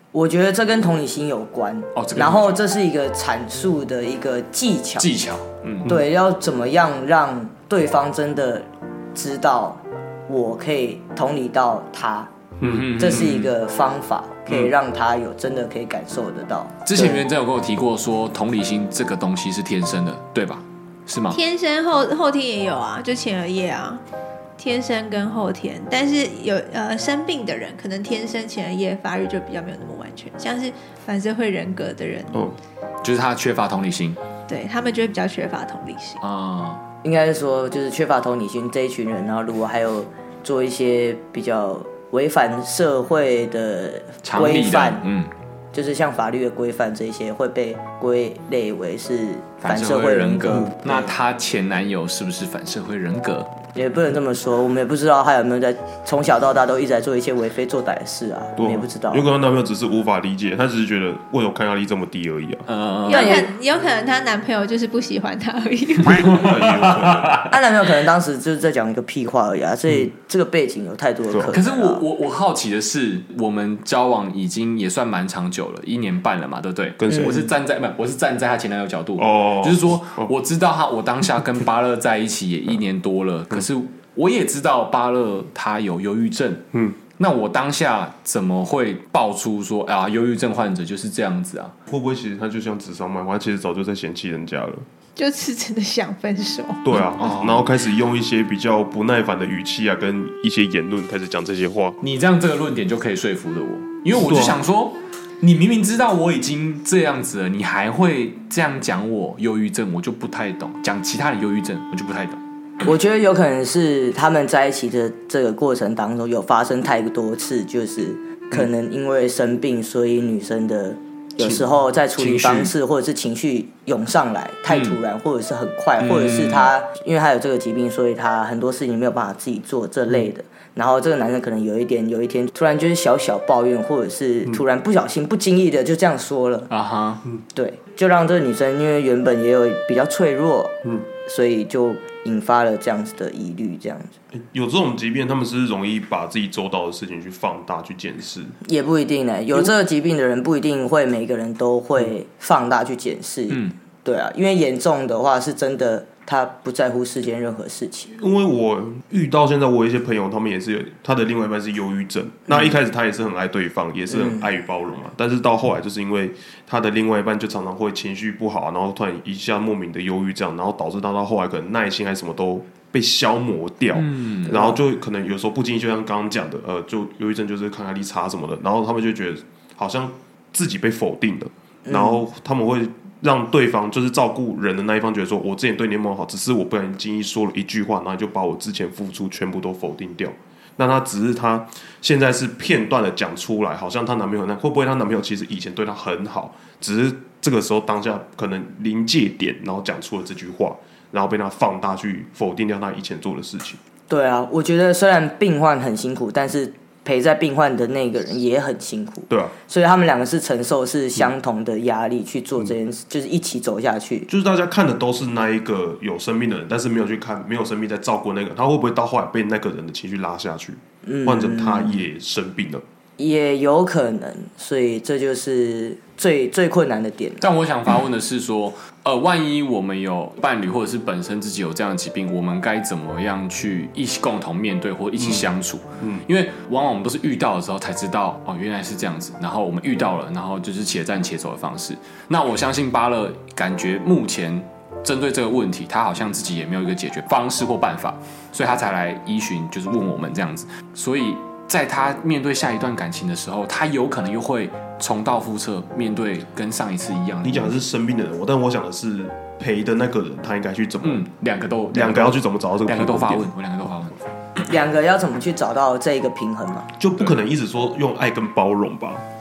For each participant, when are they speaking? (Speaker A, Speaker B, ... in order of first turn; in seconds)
Speaker A: 0.1-5.2, 5.9-12.3, 12.9-17.2, 37.0-45.0, 45.7-51.1, 53.8-59.3, 63.1-63.5, 67.5-72.0, 77.1-77.4, 112.8-136.7, 137.5-144.1, 148.6-158.1, 162.5-162.7, 164.1-164.5, 174.5-174.8, 181.9-182.2, 204.1-214.3, 221.0-222.1, 223.2-227.4, 264.7-266.9
Speaker B: 1.9-2.6, 5.0-5.9, 12.6-13.5, 16.9-21.4, 33.0-34.2, 36.2-36.8, 44.2-45.3, 49.6-53.5, 62.7-63.4, 66.2-67.5, 71.5-86.7, 87.2-91.8, 97.2-97.7, 102.0-112.4, 122.2-122.7, 124.7-125.0, 126.0-126.7, 136.7-137.2, 153.5-153.8, 173.9-174.5, 227.4-257.8, 261.0-264.2
Speaker C: 12.6-12.9, 32.3-32.6, 58.6-62.7, 66.2-67.5, 77.0-77.5, 79.2-80.3, 86.7-87.0, 91.9-94.9, 96.8-102.0, 104.1-104.6, 144.3-148.6, 158.2-203.8, 214.3-222.8, 235.2-235.4, 236.0-236.2, 257.4-261.2, 261.9-263.5, 267.0-269.2
Speaker D: 21.3-24.0, 24.6-32.4, 34.5-36.2, 63.0-66.4, 95.2-97.0